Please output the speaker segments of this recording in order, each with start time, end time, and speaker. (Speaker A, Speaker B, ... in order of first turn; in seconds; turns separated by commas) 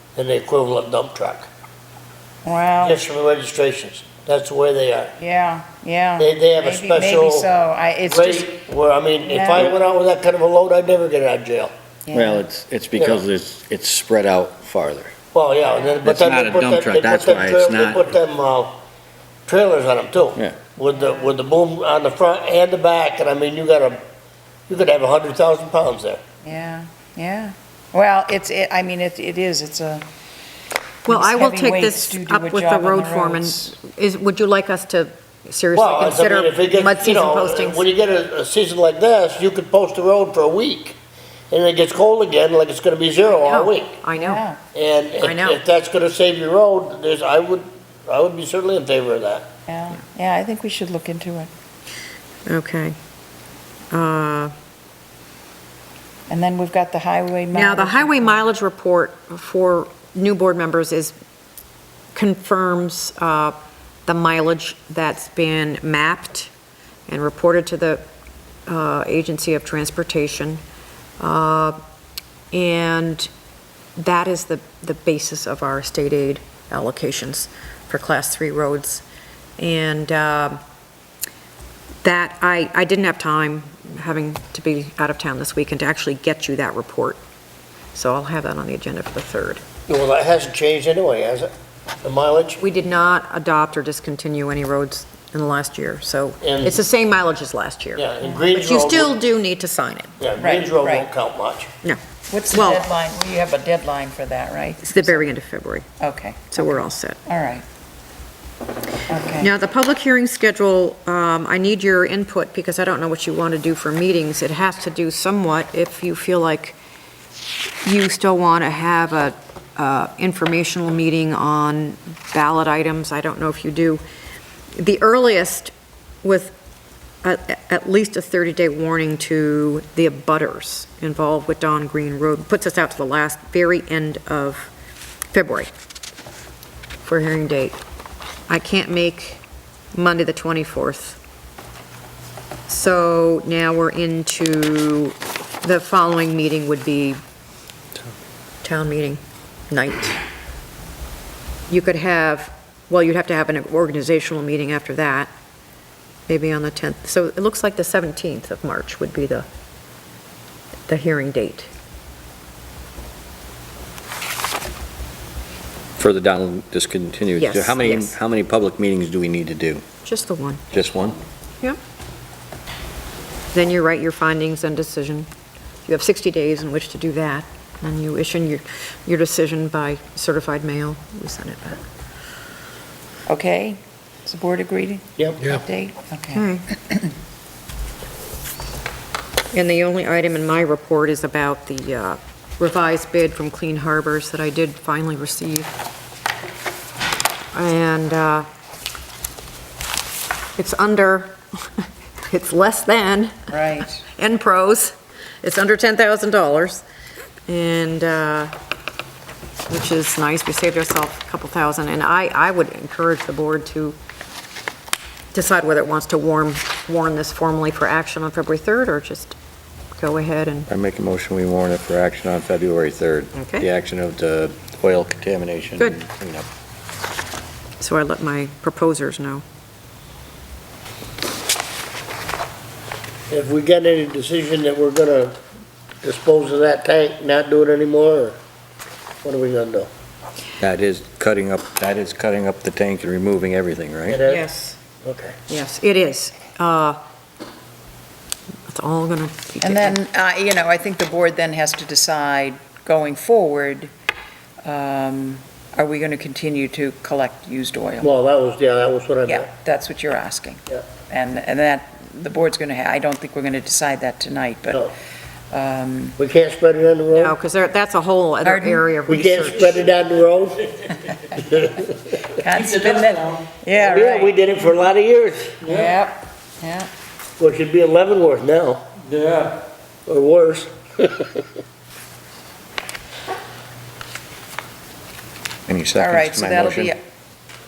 Speaker A: 0.2-1.5, Speaker B: 2.4-3.0, Speaker A: 2.8-5.2, Speaker B: 5.2-8.6, Speaker A: 6.2-7.5, Speaker A: 8.1-11.7, Speaker B: 9.2-9.7, Speaker B: 12.1-12.4, Speaker C: 12.1-15.2, Speaker A: 13.0-13.2, Speaker A: 15.3-18.8, Speaker C: 16.0-18.1, Speaker A: 19.5-24.0, Speaker C: 20.4-20.6, Speaker A: 24.7-26.2, Speaker B: 26.4-30.1, Speaker B: 31.1-33.8, Speaker D: 31.1-37.9, Speaker A: 35.8-41.0, Speaker A: 41.5-44.0, Speaker D: 43.4-44.4, Speaker B: 44.1-44.6, Speaker A: 44.7-49.5, Speaker D: 45.2-45.6, Speaker B: 49.7-51.5, Speaker D: 52.5-53.0, Speaker D: 53.9-54.5, Speaker B: 56.3-58.4, Speaker D: 57.5-61.1, Speaker D: 62.1-66.5, Speaker D: 67.1-68.0, Speaker D: 68.7-70.6, Speaker D: 71.2-71.8, Speaker D: 72.5-73.3, Speaker D: 74.0-79.0, Speaker D: 79.6-80.6, Speaker D: 82.0-87.2, Speaker D: 88.0-89.6, Speaker A: 89.9-91.5, Speaker A: 92.0-92.6, Speaker D: 92.6-100.1, Speaker A: 96.4-96.8, Speaker A: 98.0-99.2, Speaker A: 100.2-101.7, Speaker B: 100.4-101.1, Speaker D: 101.8-102.9, Speaker B: 102.3-105.3, Speaker D: 104.8-105.9, Speaker B: 106.0-107.6, Speaker D: 106.5-107.2, Speaker B: 109.1-109.5, Speaker D: 109.4-116.8, Speaker D: 117.8-124.0, Speaker D: 124.8-125.7, Speaker D: 126.2-126.5, Speaker D: 127.2-134.7, Speaker D: 135.3-135.7, Speaker D: 137.0-137.8, Speaker D: 138.5-139.4, Speaker D: 139.9-141.2, Speaker D: 142.7-147.2, Speaker D: 148.6-150.2, Speaker D: 151.7-155.3, Speaker D: 156.3-159.5, Speaker D: 160.9-161.7, Speaker C: 166.0-169.8, Speaker D: 167.4-168.2, Speaker D: 170.1-170.6, Speaker C: 170.7-171.2, Speaker D: 173.5-175.3, Speaker D: 175.9-181.8, Speaker B: 183.3-187.1, Speaker A: 185.2-185.4, Speaker D: 186.3-186.7, Speaker D: 189.5-195.7, Speaker D: 197.5-198.5, Speaker D: 200.6-203.5, Speaker B: 203.5-204.0, Speaker D: 204.1-206.8, Speaker D: 207.5-208.5, Speaker D: 209.7-214.0, Speaker D: 215.3-219.4, Speaker D: 219.9-220.7, Speaker C: 220.7-226.5, Speaker D: 223.3-223.7, Speaker D: 227.8-229.4, Speaker A: 233.3-235.4, Speaker A: 236.0-238.4, Speaker A: 239.2-239.9, Speaker C: 240.6-244.2, Speaker A: 244.1-244.5, Speaker D: 244.2-244.8, Speaker A: 245.0-245.4, Speaker D: 245.5-247.0, Speaker D: 248.7-249.9, Speaker B: 249.6-253.9, Speaker B: 254.6-258.1, Speaker A: 258.0-259.5, Speaker B: 259.3-264.9, Speaker B: 265.5-266.2, Speaker A: 266.2-267.4, Speaker D: 267.1-269.9, Speaker B: 268.4-268.9, Speaker A: 269.1-270.7, Speaker A: 271.3-272.1, Speaker B: 272.4-274.3, Speaker A: 273.7-275.8, Speaker B: 275.6-276.9, Speaker A: 277.4-278.9, Speaker A: 280.1-281.4, Speaker C: 285.7-286.9, Speaker B: 285.9-287.0